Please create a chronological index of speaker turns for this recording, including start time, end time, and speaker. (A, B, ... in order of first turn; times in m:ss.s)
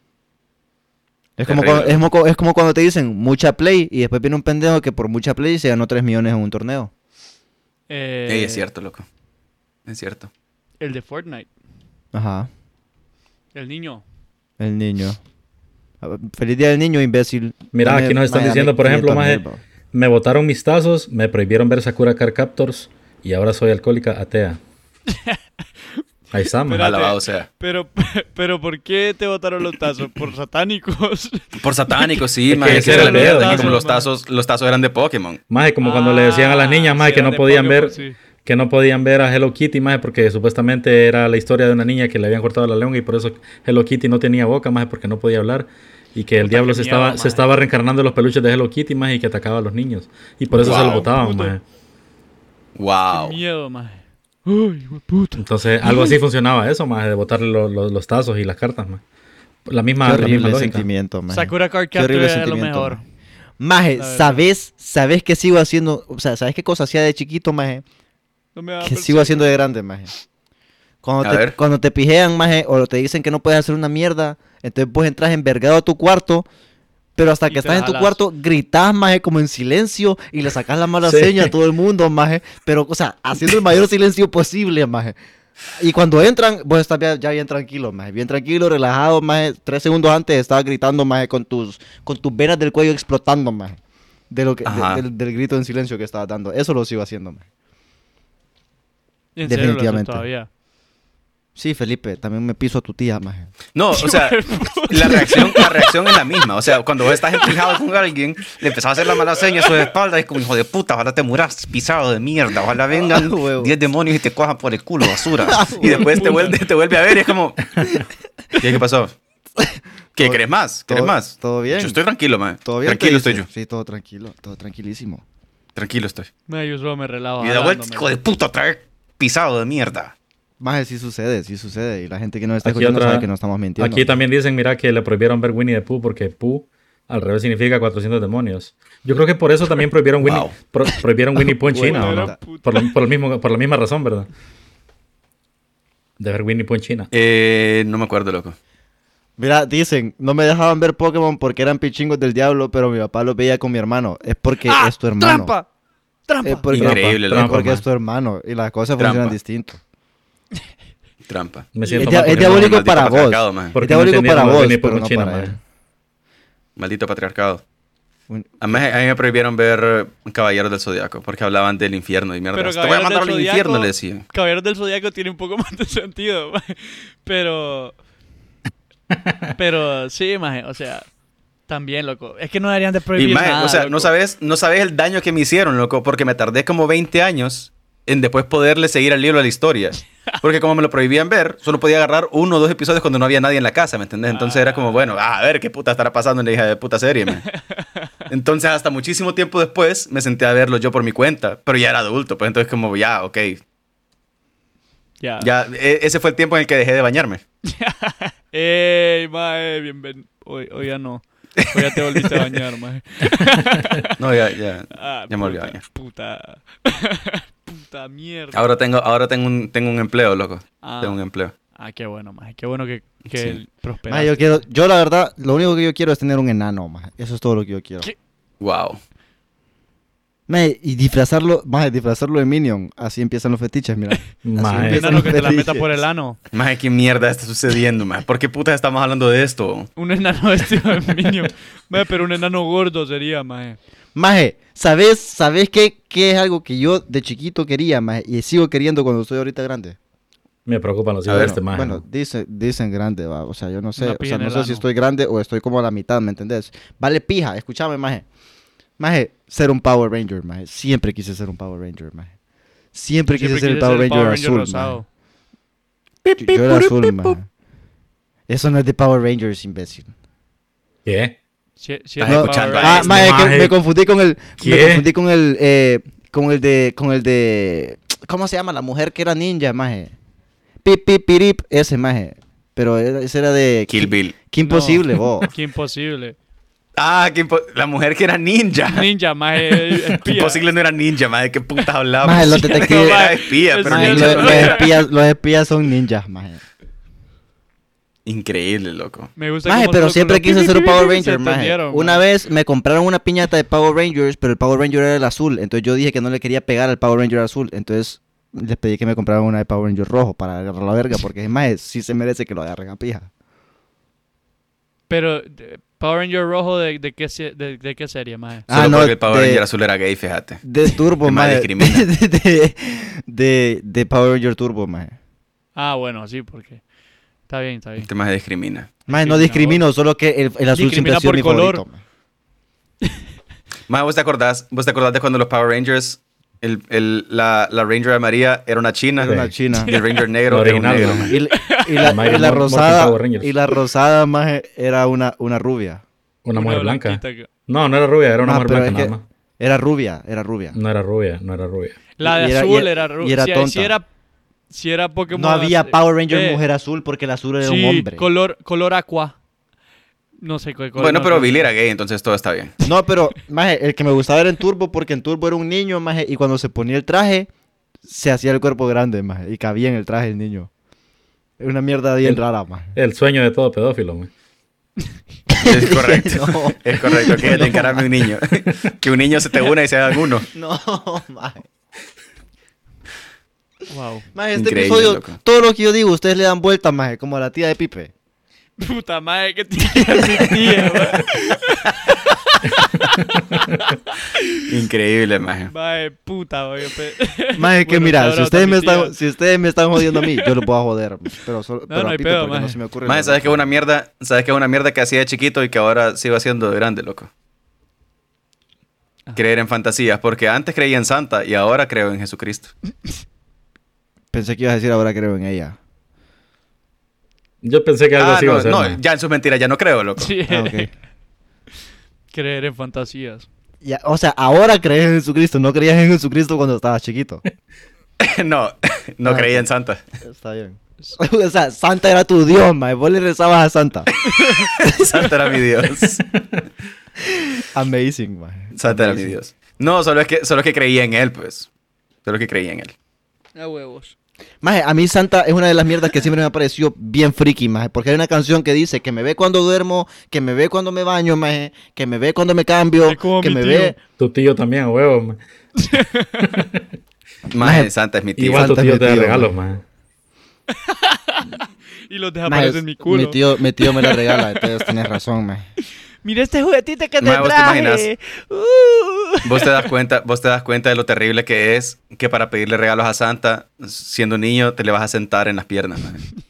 0:01.4-0:06.9 A
0:01.4-0:02.0 B
0:07.9-0:08.6 C
0:08.3-0:09.0 B
0:09.9-0:10.3 B
0:10.8-0:11.5 C
0:12.1-0:12.5 A
0:13.5-0:14.0 C
0:14.6-0:15.2 A
0:16.0-0:19.6 A
0:17.7-0:24.6 D
0:25.1-0:25.4 C
0:26.3-0:26.9 D
0:26.6-0:34.1 C
0:26.8-0:27.5 B
0:31.6-0:35.4 B
0:32.5-0:33.8 D
0:35.5-0:51.6 D
0:35.8-0:38.2 C
0:46.4-0:47.4 C
0:50.6-0:51.5 C
0:50.6-0:51.0 B
0:52.7-0:53.4 B
0:53.1-0:56.1 C
0:55.4-0:59.0 D
0:59.6-1:00.9 D
1:00.0-1:03.0 A
1:01.3-1:03.0 C
1:03.6-1:07.8 A
1:04.0-1:04.4 C
1:08.6-1:09.5 C
1:08.8-1:10.1 A
1:11.0-1:16.4 A
1:11.2-1:11.6 B
1:17.2-1:25.1 A
1:17.5-1:18.2 C
1:21.0-1:21.5 D
1:25.7-1:33.8 A
1:34.3-1:37.4 A
1:34.6-1:35.0 B
1:39.3-1:40.5 C
1:39.4-1:40.3 A
1:41.6-1:43.5 A
1:43.7-1:57.7 B
1:43.9-1:46.3 C
1:47.1-1:47.7 C
1:48.9-1:49.9 C
1:52.9-1:53.7 A
1:55.4-1:56.2 A
1:55.7-1:56.6 C
1:58.6-1:59.1 B
1:59.6-2:02.0 A
2:00.2-2:03.5 B
2:02.6-2:05.2 A
2:05.8-2:06.3 B
2:06.5-2:08.1 C
2:07.4-2:10.1 B
2:10.6-2:14.1 A
2:12.6-2:24.3 D
2:20.2-2:20.5 B
2:21.7-2:22.4 A
2:21.7-2:22.9 C
2:26.2-2:27.1 D
2:27.1-2:28.6 B
2:29.4-2:35.5 A
2:34.7-2:35.6 C
2:36.3-2:36.6 C
2:36.4-2:39.8 A
2:36.7-2:37.8 D
2:36.7-2:37.6 B
2:39.0-2:39.3 B
2:41.3-2:41.7 B
2:41.8-2:42.8 D
2:41.8-2:42.1 C
2:42.0-2:45.6 A
2:42.2-2:43.8 B
2:43.7-2:45.6 D
2:46.8-2:47.6 B
2:48.3-2:48.8 A
2:48.6-2:54.2 B
2:52.5-2:58.0 C
2:59.1-2:59.4 D
2:59.6-3:01.0 C
3:01.7-3:04.1 C
3:03.1-3:17.4 B
3:14.3-3:15.0 C
3:17.3-3:18.1 C
3:18.3-3:23.6 B
3:25.2-3:25.5 C
3:25.4-3:27.4 B
3:27.7-3:34.2 C
3:31.6-3:32.6 B
3:34.2-3:35.8 B
3:35.0-3:38.7 C
3:38.5-3:41.5 B
3:40.8-3:41.2 C
3:41.8-3:44.4 C
3:43.3-3:43.6 B
3:44.1-3:48.1 A
3:48.6-3:49.0 B
3:50.5-3:56.0 A
3:54.4-3:55.3 D
3:54.8-3:56.4 C
3:56.5-3:59.9 B
4:00.0-4:03.8 C
4:04.2-4:10.0 A
4:10.6-4:12.0 D
4:11.3-4:11.6 B
4:11.4-4:18.2 A
4:14.0-4:14.8 C
4:19.0-4:22.3 A
4:22.9-4:25.0 A
4:23.3-4:25.0 C
4:26.3-4:27.3 B
4:26.4-4:27.5 A
4:28.5-4:30.1 A
4:31.0-4:31.3 D
4:31.8-4:33.2 C
4:32.2-4:33.3 B
4:32.2-4:40.1 A
4:33.0-4:33.7 D
4:34.6-4:35.0 D
4:40.8-4:45.5 A
4:43.9-4:44.4 B
4:44.6-4:46.4 C
4:47.0-4:54.9 B
4:48.9-4:50.6 C
4:52.2-4:53.3 A
4:52.3-4:55.0 C
4:53.8-4:56.6 A
4:58.3-4:59.3 B
4:59.4-5:02.2 C
4:59.6-5:13.3 A
5:15.1-5:18.7 C
5:18.7-5:19.6 A
5:18.7-5:20.6 B
5:20.6-5:25.2 A
5:21.2-5:22.1 B
5:25.8-5:26.8 C
5:27.5-5:28.1 C
5:28.0-5:28.9 B
5:29.1-5:32.0 A
5:29.1-5:29.8 C
5:30.7-5:31.8 C
5:33.9-5:41.4 B
5:39.2-5:39.9 A
5:39.3-5:39.5 D
5:39.8-5:40.2 C
5:40.5-5:41.4 D
5:41.3-5:46.0 A
5:41.5-5:42.4 C
5:42.0-5:43.5 D
5:46.4-5:49.2 D
5:46.5-5:47.5 C
5:48.4-5:50.8 A
5:50.7-5:52.0 D
5:52.2-5:54.0 C
5:52.2-5:53.9 A
5:54.7-5:56.6 C
5:55.3-5:58.3 A
5:57.6-5:59.4 C
6:00.4-6:01.7 C
6:01.0-6:02.7 B
6:02.8-6:07.5 A
6:08.1-6:10.7 A
6:11.6-6:12.9 A
6:12.9-6:14.3 D
6:15.5-6:18.0 A
6:15.6-6:20.5 B
6:20.5-6:21.7 A
6:23.9-6:24.3 C
6:24.3-6:28.1 A
6:24.6-6:25.4 B
6:28.8-6:32.8 C
6:32.8-6:33.8 D
6:33.9-6:34.5 C
6:34.6-6:35.7 B
6:35.7-6:39.1 C
6:37.6-6:43.7 A
6:40.0-6:40.5 C
6:41.9-6:42.8 C
6:43.0-6:47.3 B
6:49.3-6:52.7 B
6:54.3-6:55.8 A
6:57.6-6:59.0 D
6:58.2-7:00.4 B
7:00.2-7:00.9 C
7:00.5-7:00.9 A
7:02.3-7:03.5 C
7:03.8-7:07.4 A
7:08.2-7:10.0 B
7:09.2-7:09.7 A
7:10.2-7:14.1 A
7:14.3-7:16.2 B
7:14.3-7:14.7 C
7:17.7-7:19.4 A
7:18.7-7:21.7 B
7:22.2-7:22.9 B
7:23.6-7:24.1 C
7:24.6-7:34.0 A
7:33.0-7:33.9 C
7:34.2-7:35.4 D
7:35.8-7:36.5 C
7:36.5-7:36.8 D
7:37.5-7:38.8 B
7:37.6-7:37.9 A
7:38.4-7:39.8 D
7:38.5-7:39.5 A
7:40.7-7:44.9 C
7:42.4-7:45.6 A
7:46.2-7:49.9 C
7:47.2-7:48.1 B
7:49.4-7:56.2 B